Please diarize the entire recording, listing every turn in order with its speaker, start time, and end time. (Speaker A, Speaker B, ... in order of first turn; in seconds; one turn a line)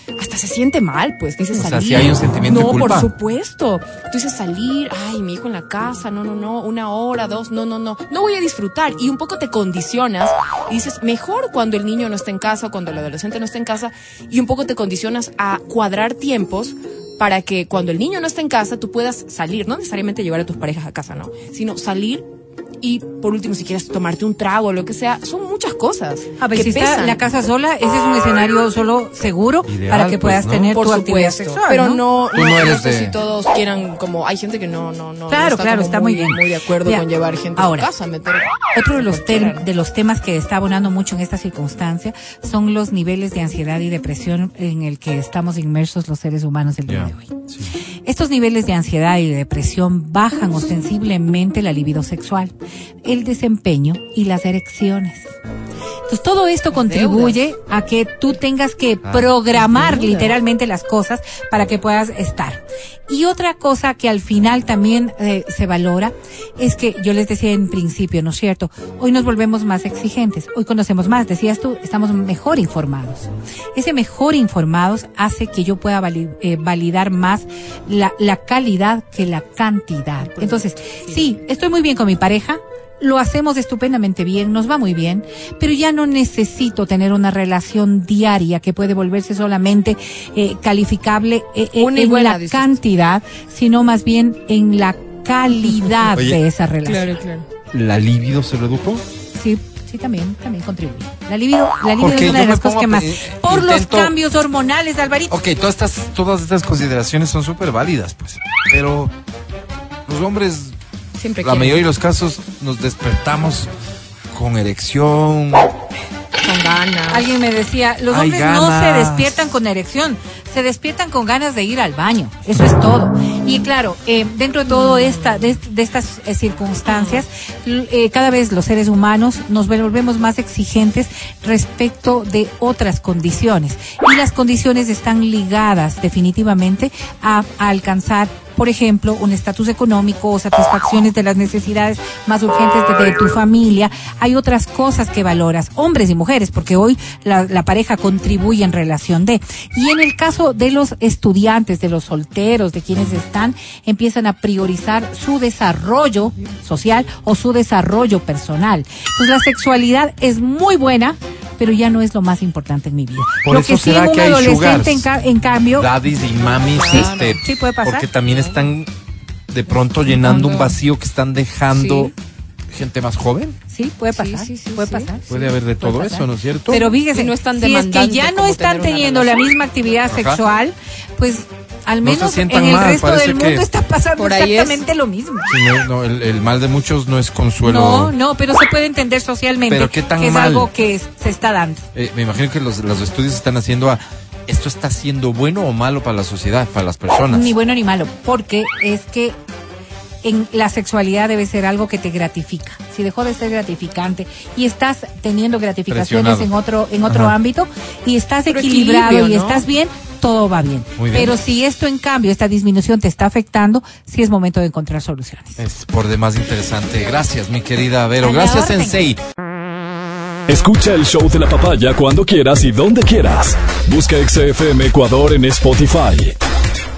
Speaker A: 0.2-22.2
Speaker B: 1.5-3.1
Speaker A: 22.8-27.2
Speaker C: 26.4-32.0
Speaker B: 29.6-30.7
Speaker A: 30.7-39.6
Speaker B: 32.3-33.2
Speaker C: 35.3-37.0
Speaker C: 37.6-37.9
Speaker C: 38.8-47.4
Speaker B: 46.9-47.7
Speaker C: 48.1-52.5
Speaker C: 53.0-55.3
Speaker C: 56.1-97.2
Speaker A: 56.7-57.4
Speaker B: 59.0-59.3
Speaker A: 59.6-60.3
Speaker A: 80.3-81.2
Speaker A: 91.8-92.8
Speaker B: 96.1-96.4
Speaker A: 96.8-97.5
Speaker B: 97.7-99.0
Speaker C: 99.4-105.4
Speaker B: 102.0-104.1
Speaker B: 105.3-109.1
Speaker B: 110.1-110.8
Speaker A: 111.2-111.8
Speaker B: 111.4-113.7
Speaker B: 114.3-115.7
Speaker A: 116.4-117.3
Speaker C: 117.1-165.9
Speaker B: 118.1-119.5
Speaker A: 124.7-125.2
Speaker A: 126.9-127.2
Speaker B: 163.4-165.1
Speaker B: 165.7-168.9
Speaker A: 166.5-167.4
Speaker C: 166.9-168.1
Speaker A: 168.3-168.6
Speaker B: 169.5-172.1
Speaker A: 170.1-170.8
Speaker A: 171.7-172.1
Speaker B: 172.7-173.6
Speaker C: 173.7-185.5
Speaker A: 174.1-175.2
Speaker B: 175.3-176.8
Speaker A: 176.7-179.5
Speaker B: 180.1-180.4
Speaker B: 182.0-183.7
Speaker A: 184.2-184.8
Speaker B: 185.5-188.1
Speaker C: 187.6-191.9
Speaker B: 189.7-190.7
Speaker B: 191.9-197.5
Speaker C: 197.3-199.4
Speaker C: 200.2-215.6
Speaker B: 205.9-206.5
Speaker B: 207.1-207.3
Speaker A: 208.5-209.6
Speaker B: 211.0-211.3
Speaker B: 215.6-219.2
Speaker C: 218.2-219.1
Speaker D: 220.5-226.3